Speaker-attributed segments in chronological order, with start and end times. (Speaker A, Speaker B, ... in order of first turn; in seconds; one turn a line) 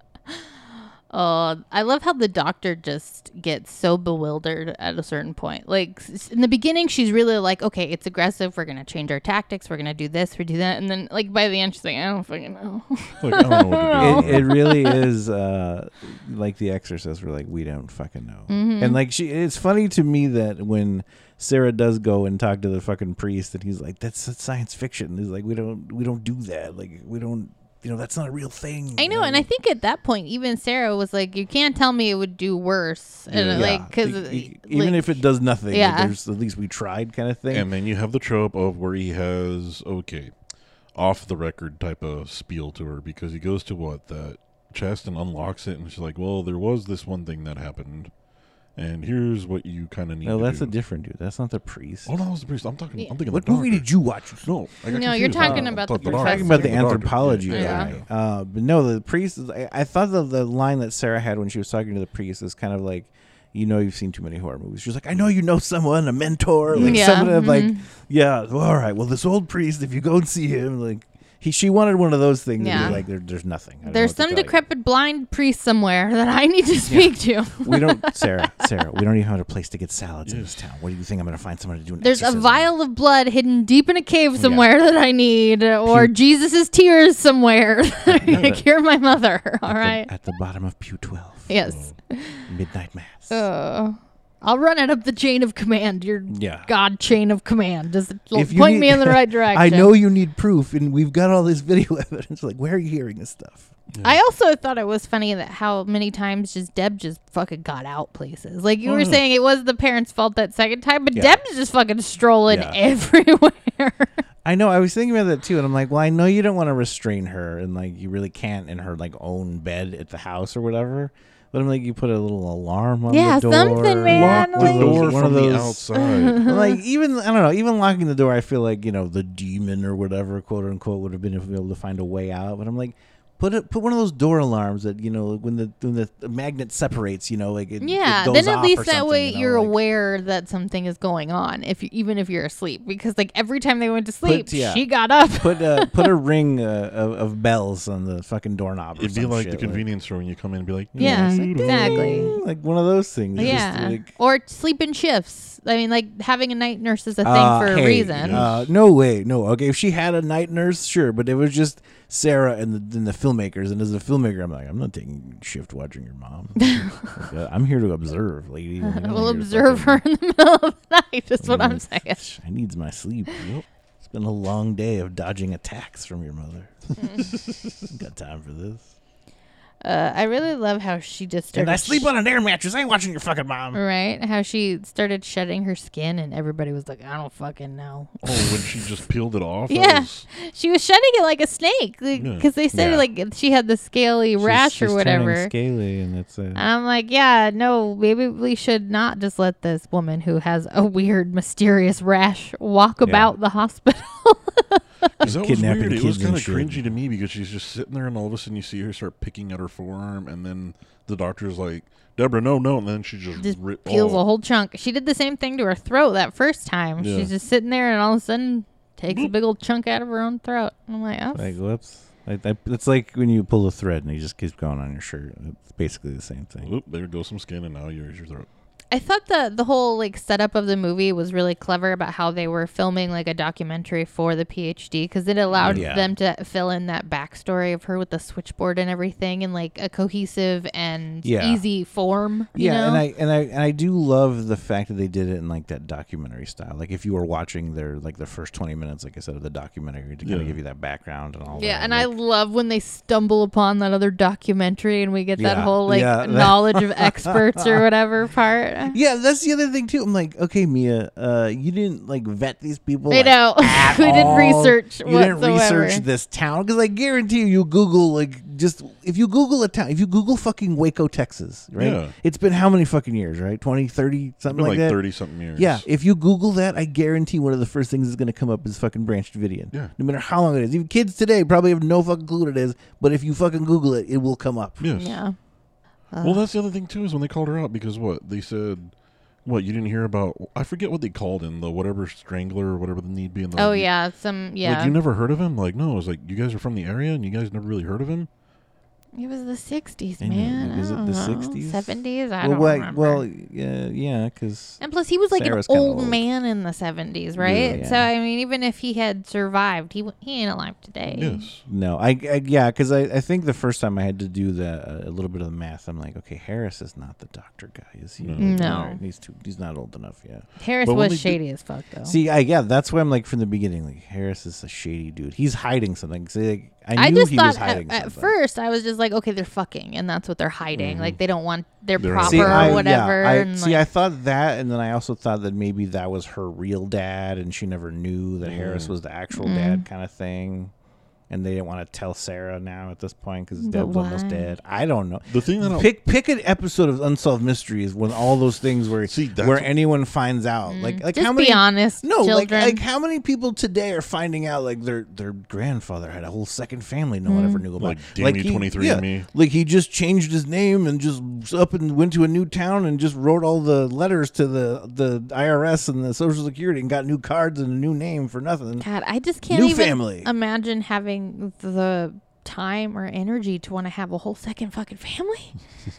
Speaker A: 1.1-15.0
Speaker B: 13.2-14.6
Speaker C: 14.0-29.5
Speaker A: 18.5-19.0
Speaker A: 29.0-36.1
Speaker C: 33.3-37.7
Speaker B: 33.5-33.7
Speaker B: 37.5-40.3
Speaker B: 41.0-48.1
Speaker B: 48.8-50.7
Speaker C: 50.2-52.2
Speaker B: 52.1-53.9
Speaker C: 53.3-54.5
Speaker B: 54.4-58.1
Speaker A: 54.9-57.9
Speaker C: 55.2-74.6
Speaker B: 66.7-67.2
Speaker A: 66.8-67.8
Speaker A: 72.6-73.0
Speaker B: 72.7-73.0
Speaker A: 73.8-78.7
Speaker C: 76.9-82.7
Speaker B: 80.3-80.6
Speaker A: 82.0-90.1
Speaker C: 84.4-84.7
Speaker C: 85.9-86.1
Speaker C: 88.1-88.6
Speaker B: 88.3-88.6
Speaker C: 89.7-91.5
Speaker A: 91.5-92.5
Speaker B: 91.7-92.0
Speaker C: 92.5-93.4
Speaker A: 93.3-99.9
Speaker C: 96.3-96.7
Speaker C: 98.3-103.7
Speaker A: 104.0-114.1
Speaker B: 108.8-109.2
Speaker C: 111.1-111.4
Speaker C: 112.5-112.8
Speaker C: 114.5-125.9
Speaker A: 123.1-125.2
Speaker B: 124.1-126.4
Speaker A: 125.9-126.8
Speaker C: 126.4-139.7
Speaker A: 137.8-146.1
Speaker C: 144.2-144.8
Speaker C: 145.4-149.8
Speaker B: 149.0-152.3
Speaker C: 150.9-154.1
Speaker A: 151.0-152.3
Speaker B: 153.4-153.7
Speaker A: 153.4-158.4
Speaker C: 157.2-170.0
Speaker B: 158.2-158.7
Speaker A: 166.6-167.1
Speaker A: 168.8-172.2
Speaker C: 171.4-173.4
Speaker B: 173.4-173.7
Speaker C: 174.0-176.8
Speaker A: 177.0-177.3
Speaker B: 177.3-177.9
Speaker C: 177.9-178.9
Speaker A: 179.8-182.1
Speaker C: 181.5-183.8
Speaker A: 183.7-188.8
Speaker B: 188.2-190.3
Speaker A: 189.7-195.5
Speaker B: 192.2-192.5
Speaker C: 192.7-193.0
Speaker C: 194.4-196.6
Speaker A: 196.6-205.1
Speaker C: 203.0-203.4
Speaker B: 205.2-214.2
Speaker C: 205.2-206.9
Speaker A: 213.4-221.5
Speaker B: 217.0-217.3
Speaker C: 221.3-226.7
Speaker B: 226.6-228.5
Speaker A: 228.9-243.0
Speaker B: 235.5-235.9
Speaker C: 235.6-236.1
Speaker C: 241.2-241.6
Speaker C: 242.6-252.1
Speaker B: 250.2-250.6
Speaker A: 251.5-259.0
Speaker C: 255.4-257.8
Speaker C: 258.9-284.8
Speaker A: 263.1-266.1
Speaker B: 264.0-264.5
Speaker B: 271.8-272.1
Speaker B: 274.5-275.9
Speaker B: 284.8-285.2
Speaker A: 284.9-285.4
Speaker A: 286.1-286.4
Speaker B: 286.2-293.9
Speaker A: 293.6-295.0
Speaker B: 294.6-298.3
Speaker A: 299.2-303.2
Speaker C: 300.2-304.8
Speaker A: 304.8-311.5
Speaker C: 305.4-306.2
Speaker B: 307.4-307.8
Speaker C: 307.4-308.1
Speaker B: 311.1-311.6
Speaker C: 311.7-320.5
Speaker B: 318.2-318.6
Speaker A: 318.4-319.0
Speaker A: 320.6-322.2
Speaker B: 320.8-321.4
Speaker C: 322.1-328.3
Speaker A: 327.0-333.8
Speaker B: 330.8-331.2
Speaker B: 332.0-332.9
Speaker C: 332.2-340.7
Speaker B: 338.4-338.9
Speaker A: 339.3-339.9
Speaker C: 341.3-368.9
Speaker A: 343.6-344.5
Speaker B: 345.3-345.9
Speaker B: 349.1-349.7
Speaker A: 350.7-352.8
Speaker A: 357.3-357.6
Speaker B: 357.8-359.3
Speaker A: 368.8-375.6
Speaker C: 369.5-370.3